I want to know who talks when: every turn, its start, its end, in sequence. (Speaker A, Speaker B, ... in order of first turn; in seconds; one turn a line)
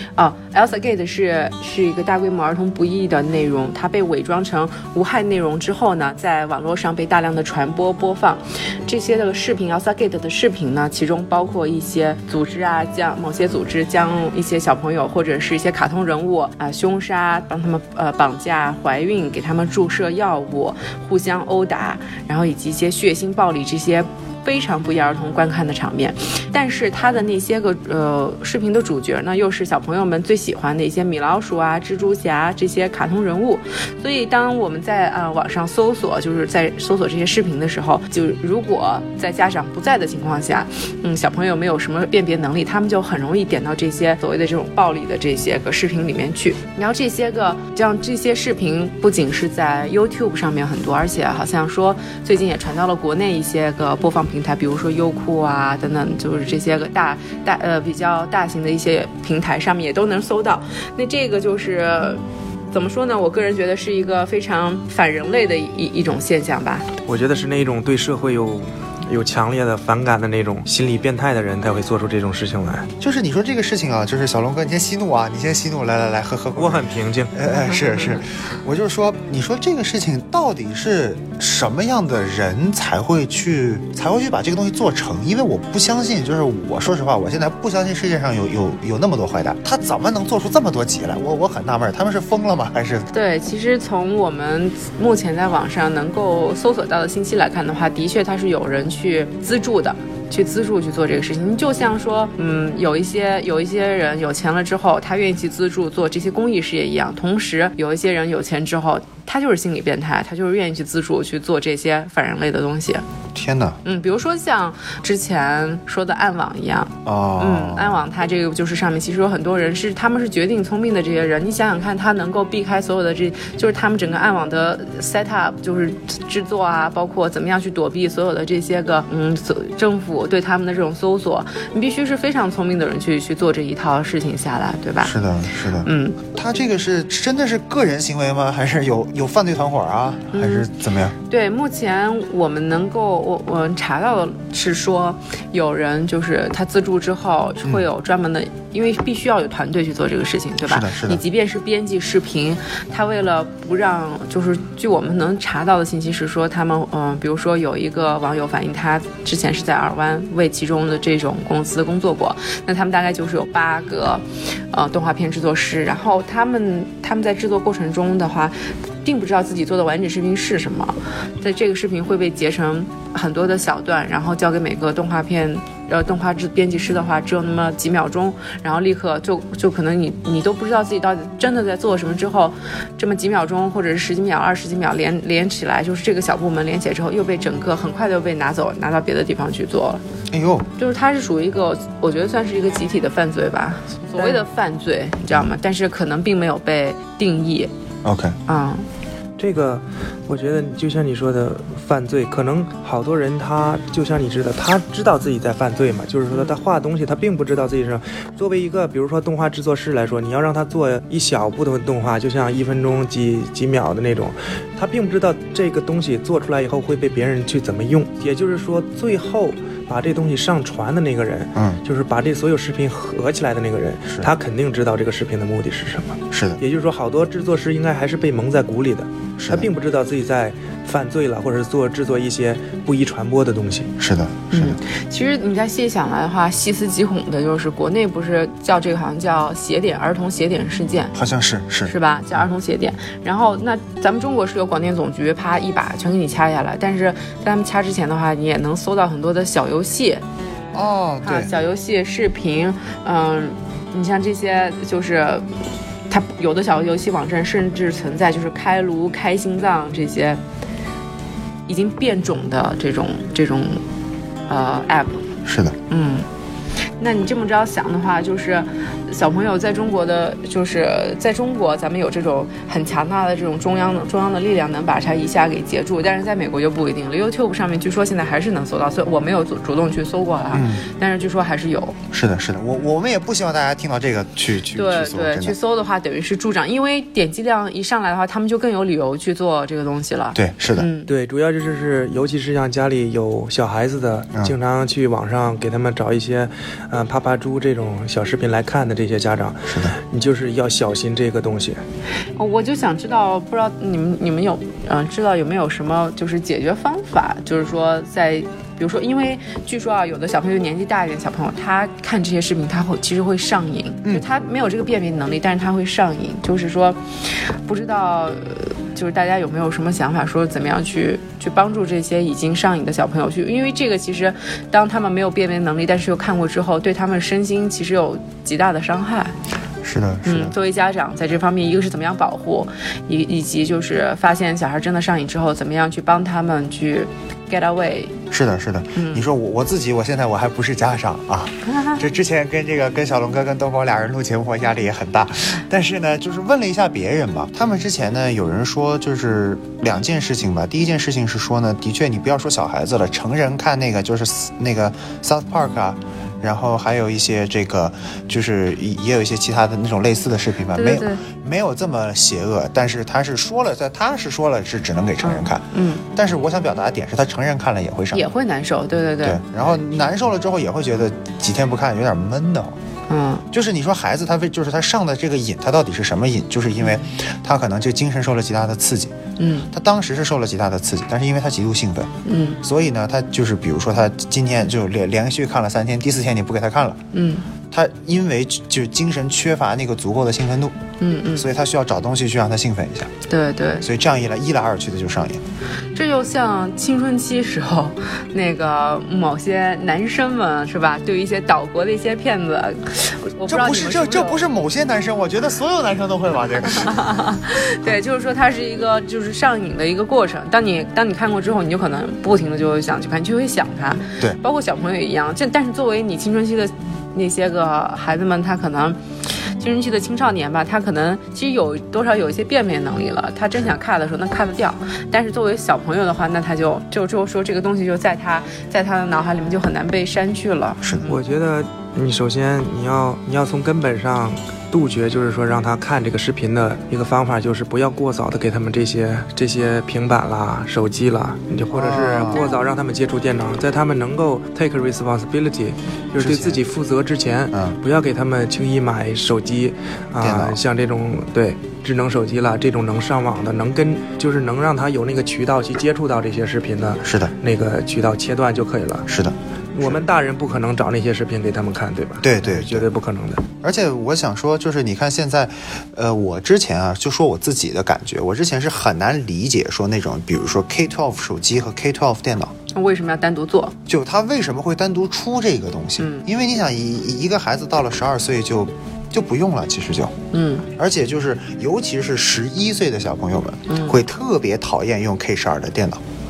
Speaker A: 0.1-66.9
Speaker B: 67.0-72.9
Speaker C: 73.0-93.1
Speaker B: 76.5-77.3
Speaker A: 77.4-78.2
Speaker A: 93.1-113.0
Speaker C: 113.3-113.8
Speaker A: 113.8-135.1
Speaker C: 117.0-118.0
Speaker C: 135.0-141.1
Speaker A: 135.8-136.2
Speaker A: 140.3-140.7
Speaker A: 141.3-190.0
Speaker C: 150.6-151.2
Speaker C: 190.3-190.7
Speaker A: 190.8-197.7
Speaker C: 198.0-198.4
Speaker A: 198.5-198.8
Speaker B: 199.4-233.9
Speaker A: 206.3-206.6
Speaker C: 221.5-221.8
Speaker C: 226.3-226.6
Speaker C: 229.4-229.7
Speaker C: 234.0-234.8
Speaker A: 234.5-241.1
Speaker C: 241.1-241.9
Speaker A: 241.9-250.2
Speaker C: 250.7-251.5
Speaker A: 251.2-255.5
Speaker A: 256.1-260.4
Speaker A: 261.7-263.8
Speaker A: 264.5-265.2
Speaker C: 265.4-265.8
Speaker A: 265.9-266.2
Speaker A: 267.0-282.0
Speaker C: 280.5-280.8
Speaker C: 282.1-285.6
Speaker A: 284.7-291.1
Speaker C: 290.3-290.9
Speaker B: 291.1-301.8
Speaker C: 299.7-299.9
Speaker A: 302.4-317.0
Speaker A: 317.6-329.3
Speaker C: 329.8-330.5
Speaker A: 330.2-338.1
Speaker C: 338.3-368.3
Speaker A: 338.9-339.2
Speaker A: 341.6-342.0
Speaker A: 360.7-361.2
Speaker A: 365.2-366.1
Speaker A: 368.1-369.4
Speaker C: 369.2-372.8
Speaker A: 373.1-373.4
Speaker C: 373.5-379.1
Speaker A: 379.4-379.7
Speaker C: 379.7-382.1
Speaker A: 382.2-382.6
Speaker C: 382.6-387.0
Speaker A: 387.1-387.4
Speaker C: 387.7-390.8
Speaker A: 391.0-391.4
Speaker C: 391.4-393.1
Speaker A: 393.3-393.9
Speaker C: 393.8-395.4
Speaker A: 395.9-404.4
Speaker C: 403.4-407.1
Speaker A: 406.8-419.0
Speaker A: 419.6-431.2
Speaker C: 430.8-431.1
Speaker B: 431.0-459.1
Speaker C: 441.7-442.4
Speaker C: 446.1-446.6
Speaker C: 450.2-450.6
Speaker C: 457.0-457.3
Speaker C: 459.1-460.0
Speaker B: 459.7-463.4
Speaker C: 462.2-462.9
Speaker C: 463.6-472.5
Speaker A: 472.7-473.8
Speaker C: 473.9-480.1
Speaker A: 476.0-476.3
Speaker A: 480.3-480.7
Speaker C: 480.8-486.0
Speaker A: 483.7-484.0